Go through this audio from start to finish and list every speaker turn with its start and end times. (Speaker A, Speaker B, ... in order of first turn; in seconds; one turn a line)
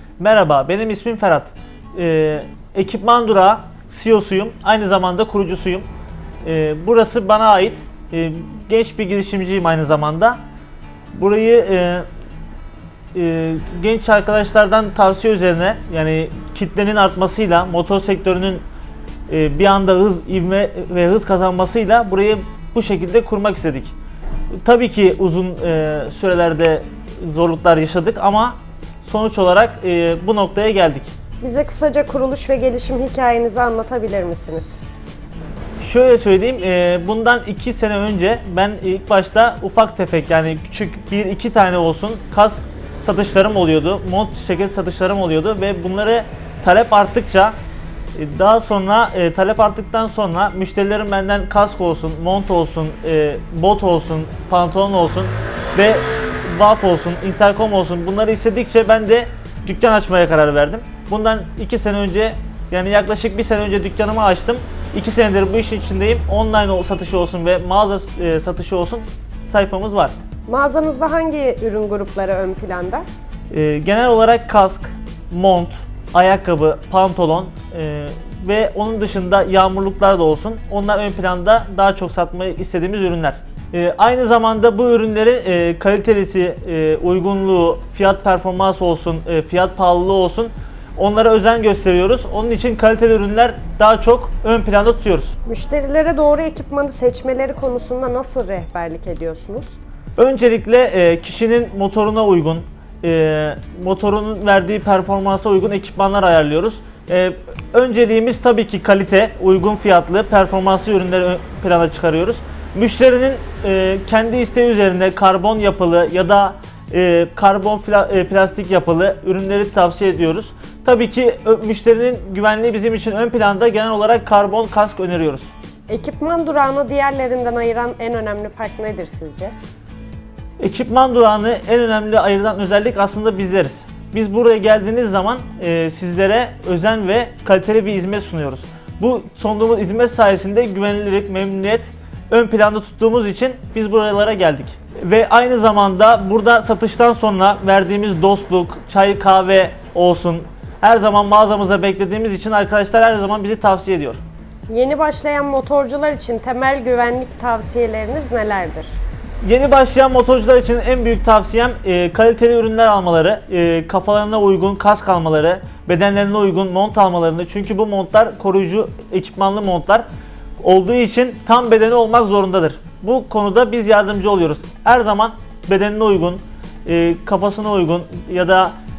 Speaker A: 0.2-5.9
Speaker A: 6.4-10.4
Speaker A: 11.1-12.0
Speaker A: 13.1-18.6
Speaker A: 19.3-23.9
Speaker A: 24.6-31.1
Speaker B: 31.4-34.9
Speaker A: 35.8-47.5
Speaker A: 48.1-70.1
Speaker B: 70.5-73.0
Speaker A: 73.5-95.3
Speaker B: 95.5-99.8
Speaker A: 100.2-125.5
Speaker B: 125.9-129.5
Speaker A: 130.6-154.2
Speaker B: 154.7-158.9
Speaker A: 159.4-170.1
Speaker A: 170.6-178.7